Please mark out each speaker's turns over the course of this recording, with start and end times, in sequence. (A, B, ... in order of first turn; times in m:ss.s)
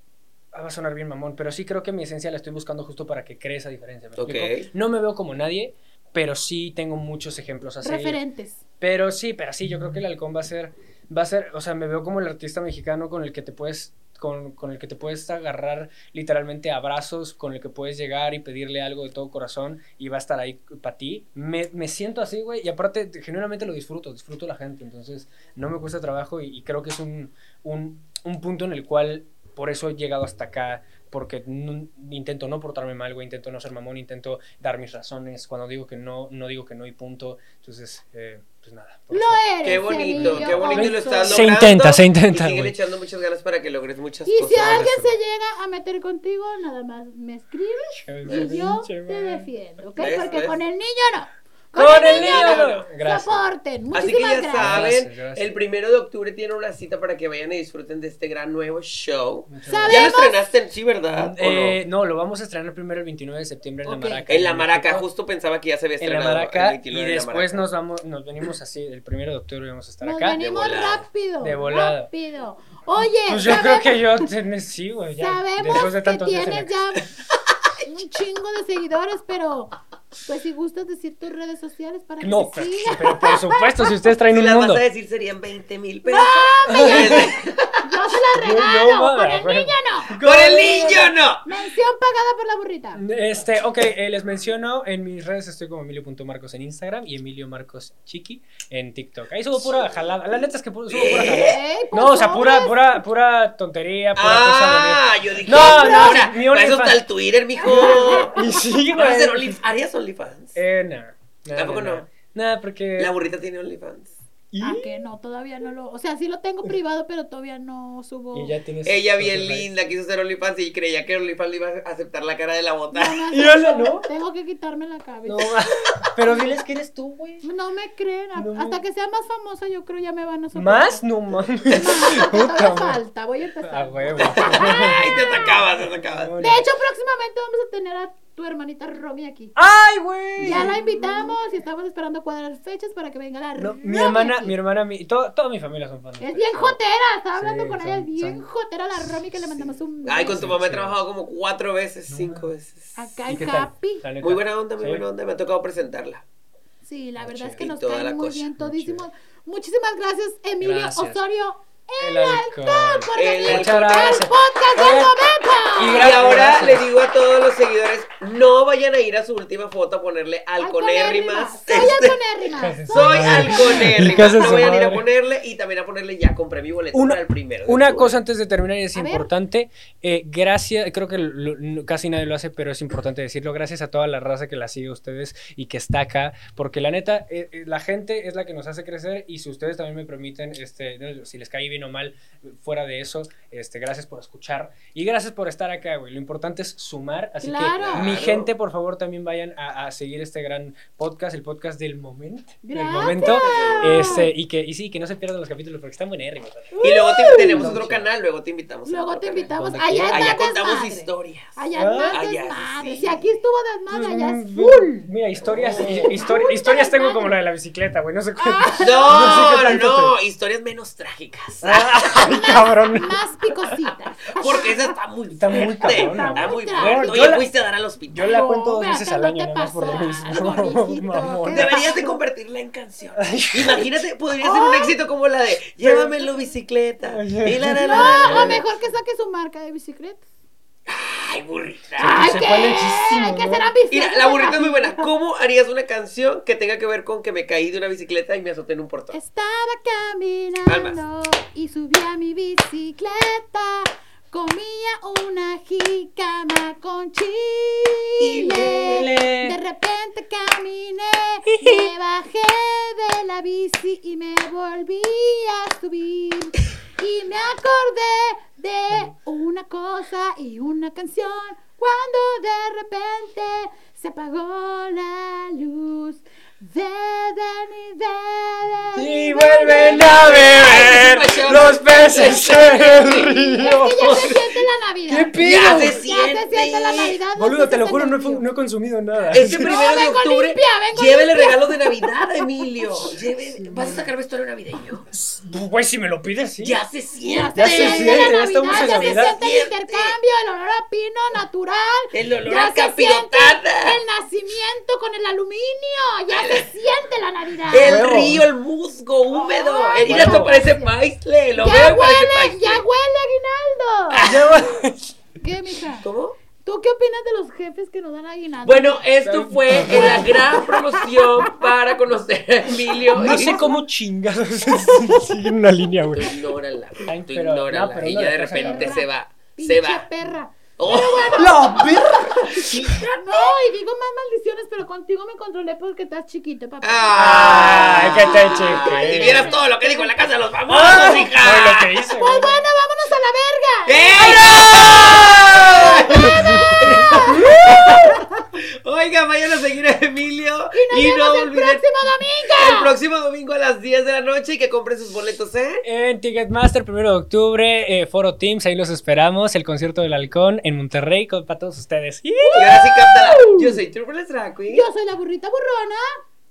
0:00.5-0:08.2 A
0:04.2-0:04.7 B
0:07.8-0:08.6 C
0:08.8-0:42.7 A
0:39.1-0:41.6 C
0:39.6-0:44.9 B
0:44.3-0:54.9 C
0:44.5-0:45.2 A
0:48.0-0:49.5 A
0:48.3-0:48.6 B
0:50.0-0:50.4 A
0:50.0-0:50.6 B
0:51.7-0:53.5 A
0:51.9-0:52.8 B
0:53.9-1:01.8 B
0:54.6-0:55.5 A
0:59.5-1:00.1 A
0:59.7-1:00.4 C
1:01.2-1:05.1 A
1:03.8-1:04.2 C
1:04.3-1:07.6 B
1:06.0-1:10.4 A
1:10.0-1:14.3 C
1:10.3-1:11.0 B
1:11.4-1:12.1 A
1:13.2-1:16.8 A
1:15.2-1:17.0 C
1:17.8-1:24.0 C
1:22.2-1:24.8 A
1:24.3-1:27.9 B
1:26.0-1:30.2 C
1:26.6-1:27.3 A
1:28.4-1:31.1 A
1:30.2-1:31.5 B
1:31.5-1:33.0 C
1:33.0-1:47.0 A
1:40.9-1:41.6 B
1:41.4-1:43.0 C
1:44.2-1:48.4 B
1:45.5-1:46.3 C
1:47.6-1:49.6 A
1:47.6-1:48.4 C
1:48.9-1:50.6 B
1:50.6-1:53.1 A
1:51.6-1:52.1 B
1:53.0-1:54.2 B
1:54.5-1:54.9 A
1:54.6-1:58.6 C
1:58.3-1:59.7 A
1:58.8-2:03.3 B
2:02.9-2:05.5 C
2:03.3-2:04.1 A
2:05.2-2:07.4 A
2:06.0-2:06.5 C
2:07.4-2:11.0 C
2:08.4-2:08.8 A
2:10.6-2:13.0 A
2:11.7-2:15.6 C
2:13.7-2:16.7 A
2:14.2-2:16.4 B
2:16.4-2:19.6 C
2:19.6-2:20.8 A
2:20.4-2:21.4 B
2:20.4-2:24.5 C
2:23.6-2:26.8 A
2:26.2-2:30.5 C
2:27.4-2:28.5 A
2:30.0-2:33.0 B
2:30.3-2:31.0 A
2:32.1-2:32.5 A
2:33.0-2:34.0 C
2:33.3-2:35.1 A
2:34.2-2:36.2 B
2:36.8-2:46.2 C
2:37.2-2:37.6 A
2:37.5-2:38.5 B
2:38.6-2:39.0 A
2:40.6-2:41.2 A
2:42.0-2:45.1 A
2:43.2-2:44.2 B
2:45.8-2:46.8 A
2:45.8-2:52.2 B
2:50.6-2:53.9 C
2:52.6-2:55.0 A
2:52.9-2:58.1 B
2:56.9-3:28.1 A
2:59.0-2:59.3 C
3:17.4-3:18.2 C
3:17.7-3:18.5 B
3:22.6-3:24.3 C
3:23.0-3:24.3 B
3:26.7-3:27.8 C
3:26.8-3:31.6 B
3:28.9-3:35.0 C
3:29.5-3:30.4 A
3:31.8-3:32.2 A
3:32.1-3:33.4 B
3:33.9-3:40.2 A
3:35.5-3:36.2 B
3:35.9-3:37.4 C
3:38.4-3:39.5 C
3:38.8-3:42.0 B
3:41.6-3:43.7 A
3:42.0-3:45.0 C
3:44.3-3:48.4 B
3:45.3-3:47.5 A
3:45.8-3:47.4 C
3:48.1-3:51.8 A
3:48.2-3:52.2 C
3:51.5-3:58.6 B
3:53.2-3:53.9 A
3:54.4-3:55.0 C
3:55.8-3:56.1 A
3:57.1-3:58.7 A
3:57.8-4:00.2 C
4:00.9-4:02.7 B
4:02.0-4:03.7 A
4:02.1-4:05.0 C
4:03.9-4:09.2 B
4:09.1-4:40.9 C
4:10.7-4:11.0 B
4:18.2-4:19.1 B
4:18.5-4:19.6 A
4:21.5-4:21.9 A
4:38.9-4:44.1 A
4:39.7-4:44.6 B
4:42.4-4:48.4 C
4:45.1-4:46.0 A
4:45.4-4:47.2 B
4:47.4-4:49.7 A
4:49.3-4:55.1 B
4:49.5-4:51.9 C
4:53.6-4:54.0 A
4:55.1-4:56.8 A
4:56.6-5:00.2 B
4:57.2-5:08.1 C
4:57.6-4:59.4 A
5:02.1-5:04.0 B
5:06.3-5:06.7 B
5:07.7-5:12.8 B
5:07.7-5:08.5 A
5:09.3-5:10.9 C
5:10.1-5:10.6 A
5:11.6-5:14.4 C
5:14.1-5:14.6 B
5:14.2-5:15.1 A
5:15.4-5:16.1 C
5:16.0-5:16.4 B
5:16.6-5:19.1 C
5:18.6-5:23.6 B
5:19.2-5:20.4 A
5:19.8-5:21.7 C
5:23.1-5:26.4 A
5:23.3-5:23.7 C
5:26.1-5:30.0 B
5:27.1-5:29.0 A
5:28.5-5:40.2 C
5:30.8-5:31.6 B
5:30.9-5:33.0 A
5:32.5-5:33.2 B
5:36.8-5:41.9 B
5:37.1-5:39.6 A
5:40.7-5:42.6 A
5:42.2-5:48.4 C
5:43.9-5:51.8 B
5:46.0-5:47.9 A
5:50.7-5:52.9 C
5:52.5-5:55.8 B
5:55.8-6:02.8 A
6:02.4-6:03.8 C
6:02.6-6:04.8 B
6:04.7-6:06.0 C